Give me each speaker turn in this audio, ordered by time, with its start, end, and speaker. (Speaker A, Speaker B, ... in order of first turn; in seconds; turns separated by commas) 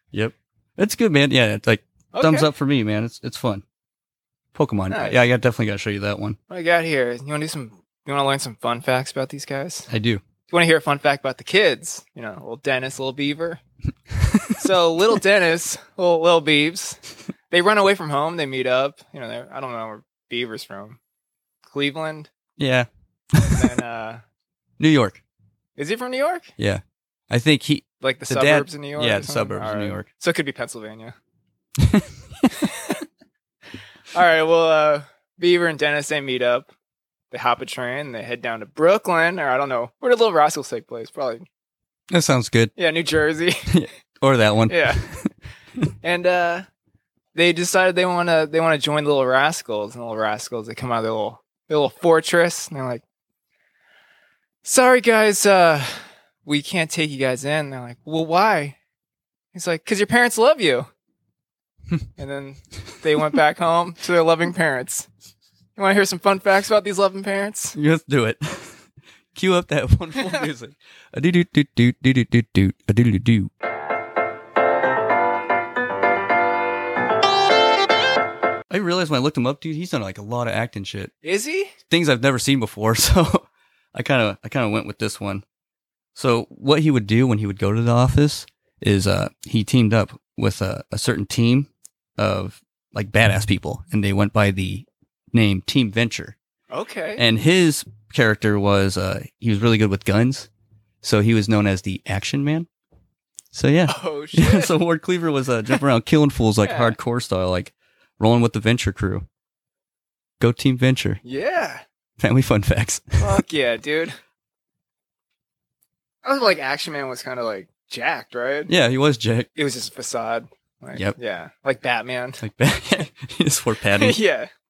Speaker A: 0.1-3.6, Speaker B: 2.1-2.5, Speaker A: 4.5-6.4, Speaker B: 4.9-5.2, Speaker B: 6.5-9.9, Speaker A: 9.9-10.2, Speaker B: 10.5-13.6, Speaker B: 14.6-21.0, Speaker B: 21.7-22.3, Speaker A: 22.6-23.7, Speaker B: 23.4-24.2, Speaker A: 24.8-25.2, Speaker B: 25.8-26.5, Speaker A: 26.6-30.1, Speaker B: 28.0-31.1, Speaker A: 31.8-32.5, Speaker B: 32.6-32.9, Speaker B: 34.1-36.7, Speaker B: 37.3-41.5, Speaker A: 42.1-42.8, Speaker B: 42.8-43.7, Speaker A: 43.7-45.1, Speaker B: 44.7-45.0, Speaker B: 46.0-46.6, Speaker B: 47.4-53.0, Speaker B: 54.6-58.8, Speaker B: 59.5-60.9, Speaker B: 62.2-65.1, Speaker B: 65.8-67.8, Speaker A: 67.8-68.8, Speaker A: 69.3-73.5, Speaker A: 78.7-81.1, Speaker B: 81.2-81.7, Speaker A: 81.9-85.4, Speaker A: 86.1-96.4, Speaker B: 96.7-97.2, Speaker A: 97.2-100.5, Speaker A: 101.0-102.7, Speaker A: 103.5-109.2, Speaker B: 103.9-104.7, Speaker B: 106.6-107.0, Speaker A: 110.4-111.2, Speaker B: 111.2-111.8, Speaker A: 112.2-113.3, Speaker B: 113.2-114.2, Speaker B: 116.2-118.7, Speaker A: 118.7-119.5, Speaker B: 119.6-122.4, Speaker A: 122.4-124.2, Speaker B: 124.0-124.5